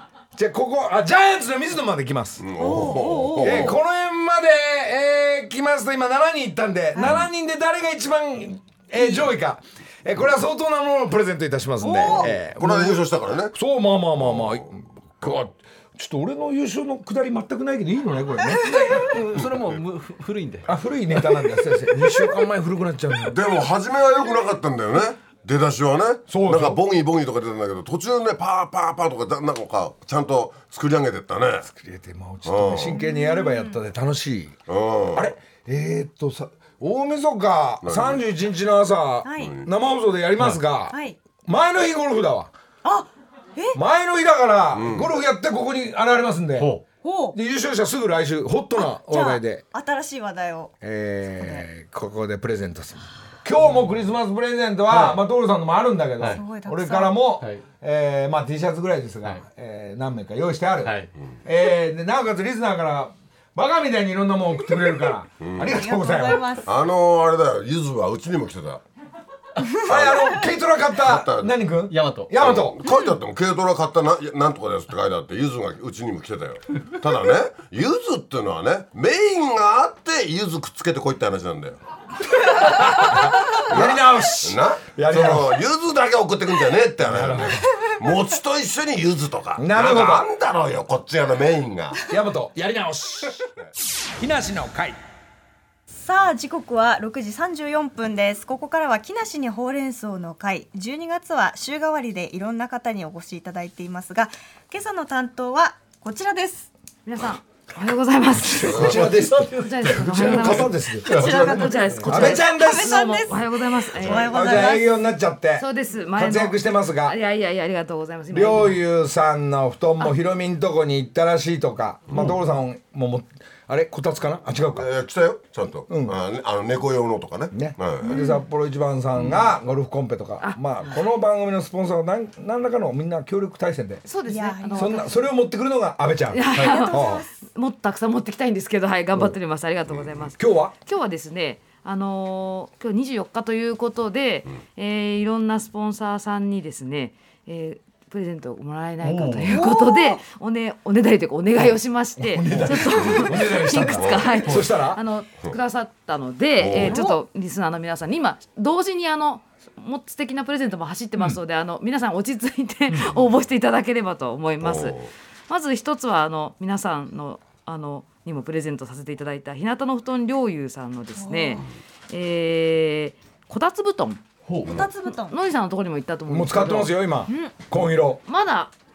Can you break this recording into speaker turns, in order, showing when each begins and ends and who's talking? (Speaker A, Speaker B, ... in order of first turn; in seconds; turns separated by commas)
Speaker A: 0.3-2.4, Speaker B: 2.4-3.8, Speaker C: 2.6-3.7, Speaker A: 3.4-18.7, Speaker C: 6.9-7.2, Speaker C: 8.9-9.2, Speaker C: 11.8-12.3, Speaker B: 12.0-13.5, Speaker B: 14.2-14.7, Speaker D: 18.6-20.7, Speaker A: 20.7-23.4, Speaker B: 23.2-31.7, Speaker A: 26.3-26.8, Speaker A: 31.6-34.5, Speaker B: 32.4-33.0, Speaker C: 32.9-33.8, Speaker B: 34.7-35.3, Speaker A: 35.1-42.5, Speaker B: 37.8-38.2, Speaker C: 39.2-39.5, Speaker B: 39.4-39.7, Speaker C: 40.9-41.2, Speaker C: 42.8-43.8, Speaker A: 43.7-46.7, Speaker B: 44.7-45.1, Speaker D: 46.6-46.8, Speaker C: 47.0-47.4, Speaker A: 47.3-49.6, Speaker C: 48.8-50.7, Speaker A: 50.8-66.5, Speaker C: 51.3-51.6, Speaker D: 54.9-55.2, Speaker C: 56.3-57.2, Speaker D: 60.8-61.1, Speaker B: 65.4-65.7, Speaker C: 65.6-66.7, Speaker B: 66.6-68.8, Speaker A: 69.8-72.8, Speaker B: 69.8-71.6, Speaker D: 71.9-72.3, Speaker B: 72.4-81.8, Speaker C: 72.8-73.1, Speaker A: 82.4-85.6, Speaker B: 83.5-92.0, Speaker A: 87.0-87.6, Speaker A: 89.6-90.3, Speaker A: 92.1-93.4, Speaker A: 94.2-95.0, Speaker C: 96.0-106.7, Speaker E: 107.0-109.0, Speaker A: 108.5-111.1, Speaker B: 108.7-109.1, Speaker D: 108.7-110.5, Speaker E: 109.5-114.8, Speaker B: 110.2-111.7, Speaker D: 111.0-112.1, Speaker C: 111.0-115.0, Speaker A: 112.1-112.9, Speaker B: 114.0-114.3, Speaker A: 114.3-117.2, Speaker E: 115.5-118.8, Speaker A: 118.3-124.9, Speaker B: 124.7-128.2, Speaker A: 125.9-126.2, Speaker A: 127.5-134.0, Speaker E: 130.4-131.0, Speaker E: 134.1-135.2, Speaker C: 134.2-135.2, Speaker A: 134.7-137.2, Speaker E: 136.3-174.2, Speaker C: 136.6-137.3, Speaker A: 140.4-140.7, Speaker D: 149.0-149.6, Speaker C: 149.4-150.2, Speaker A: 152.2-155.0, Speaker B: 152.7-154.5, Speaker B: 156.6-157.0, Speaker C: 156.9-157.2, Speaker D: 162.9-163.2, Speaker B: 164.6-165.1, Speaker C: 171.2-171.6, Speaker D: 174.5-174.8, Speaker C: 174.6-175.4, Speaker E: 175.2-177.0, Speaker A: 176.3-178.2, Speaker C: 177.3-177.5, Speaker E: 178.2-178.7